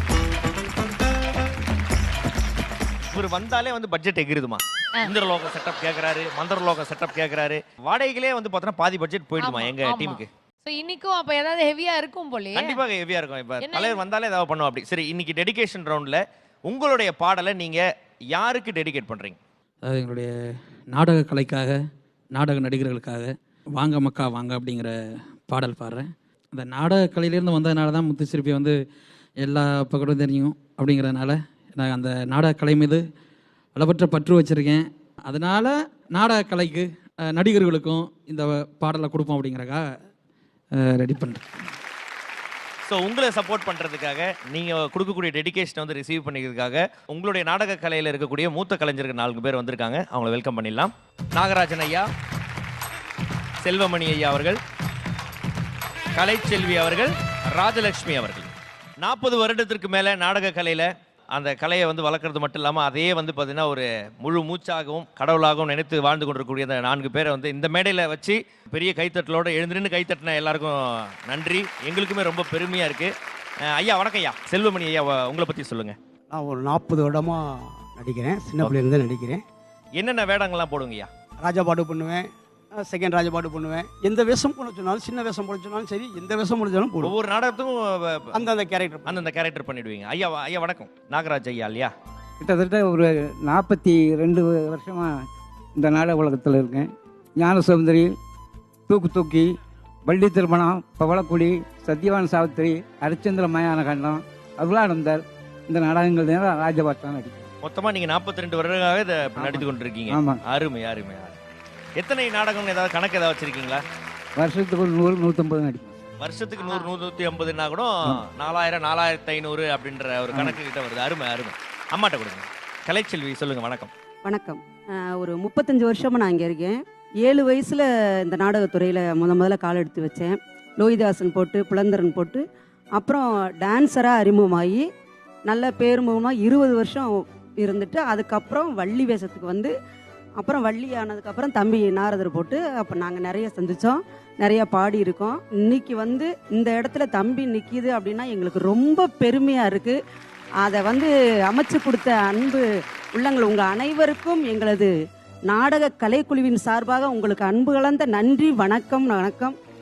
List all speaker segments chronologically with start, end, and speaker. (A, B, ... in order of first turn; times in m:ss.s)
0:03.1-0:10.3 A
0:09.4-0:12.8 B
0:12.5-0:17.8 A
0:13.6-0:14.0 B
0:18.3-0:19.4 A
0:19.8-0:20.3 C
0:20.9-0:21.8 C
0:22.3-0:24.9 C
0:25.5-0:28.8 C
0:29.4-0:33.0 C
0:33.8-0:39.8 C
0:40.8-0:41.5 C
0:42.8-0:52.1 A
0:53.6-0:54.6 A
0:56.2-1:10.8 A
1:11.3-1:13.1 A
1:13.7-1:16.0 A
1:16.3-1:19.4 D
1:20.0-1:21.1 A
1:21.4-1:27.1 D
1:27.0-1:28.4 A
1:28.3-1:29.2 D
1:29.0-1:31.9 A
1:32.4-1:35.1 E
1:35.8-1:38.1 E
1:38.9-1:39.5 E
1:40.1-1:47.5 E
1:47.6-1:51.4 A
1:49.4-1:50.4 E
1:52.0-1:53.8 A
1:54.4-1:56.0 E
1:56.2-2:03.9 A
1:56.6-1:56.9 B
2:04.2-2:12.4 F
2:13.0-2:14.8 F
2:15.5-2:19.7 F
2:20.4-2:30.0 F
2:30.6-2:34.9 F
2:35.5-2:39.5 F